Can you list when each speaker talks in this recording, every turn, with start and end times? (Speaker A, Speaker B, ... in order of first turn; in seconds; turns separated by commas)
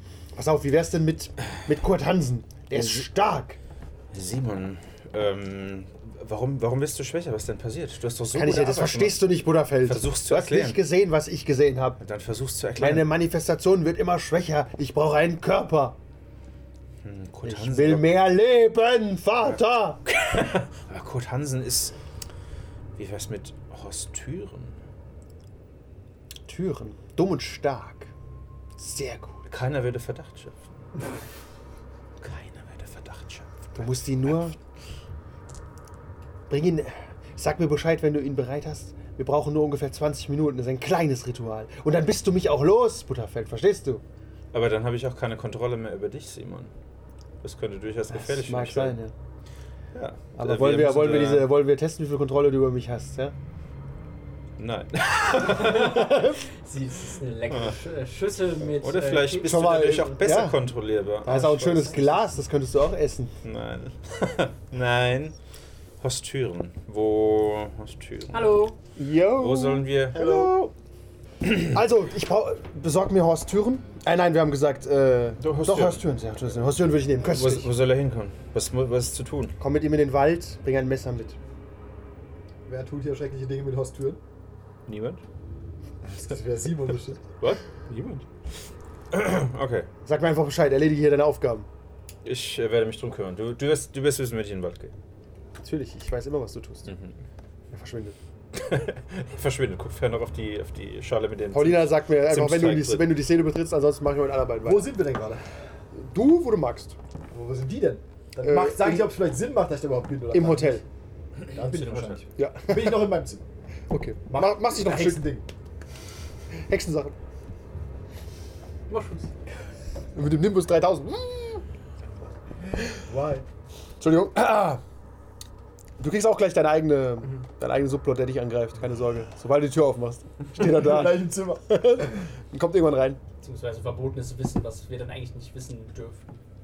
Speaker A: 0.3-3.6, Speaker B: 2.7-3.1, Speaker B: 4.1-9.2, Speaker A: 8.3-12.0, Speaker B: 9.8-10.8, Speaker B: 12.0-13.1, Speaker A: 12.8-16.0, Speaker B: 17.0-18.1, Speaker A: 17.4-20.0, Speaker B: 19.5-21.9, Speaker B: 23.0-24.8, Speaker A: 26.5-28.1, Speaker A: 28.8-29.4, Speaker B: 29.5-30.7, Speaker B: 32.2-33.5, Speaker A: 33.8-34.6, Speaker A: 36.5-44.0, Speaker B: 44.5-46.7, Speaker B: 47.4-49.0, Speaker A: 48.1-49.1, Speaker B: 49.9-51.5, Speaker A: 50.4-53.4, Speaker B: 54.6-56.3, Speaker C: 55.4-60.2, Speaker A: 55.8-56.4, Speaker B: 58.8-62.2, Speaker A: 59.4-60.7, Speaker A: 61.2-63.3, Speaker C: 61.5-62.0, Speaker B: 63.4-65.4, Speaker B: 66.0-68.6, Speaker C: 68.3-68.8, Speaker A: 69.0-70.3, Speaker B: 69.3-70.7, Speaker D: 70.2-70.5, Speaker A: 71.6-77.7, Speaker B: 75.4-76.0, Speaker B: 77.2-79.6, Speaker A: 79.6-81.4, Speaker D: 82.7-84.2, Speaker B: 84.9-85.2, Speaker D: 86.0-87.2, Speaker B: 87.4-88.3, Speaker B: 89.1-89.9, Speaker A: 90.0-91.7, Speaker B: 92.2-94.9, Speaker A: 95.6-96.9, Speaker B: 96.9-97.1, Speaker A: 97.7-98.2, Speaker B: 98.5-103.1, Speaker A: 101.5-104.9, Speaker D: 104.6-105.4, Speaker A: 105.9-107.0, Speaker D: 107.3-110.8, Speaker A: 108.4-109.1, Speaker A: 110.3-110.8, Speaker B: 111.5-112.2, Speaker D: 111.5-113.5, Speaker A: 112.4-113.2, Speaker A: 113.9-115.3, Speaker D: 114.3-115.5, Speaker A: 116.7-117.1, Speaker C: 118.9-119.3, Speaker A: 120.2-121.6, Speaker D: 123.1-123.5, Speaker A: 124.0-124.8, Speaker A: 126.0-133.2, Speaker D: 130.6-131.8, Speaker C: 133.4-136.4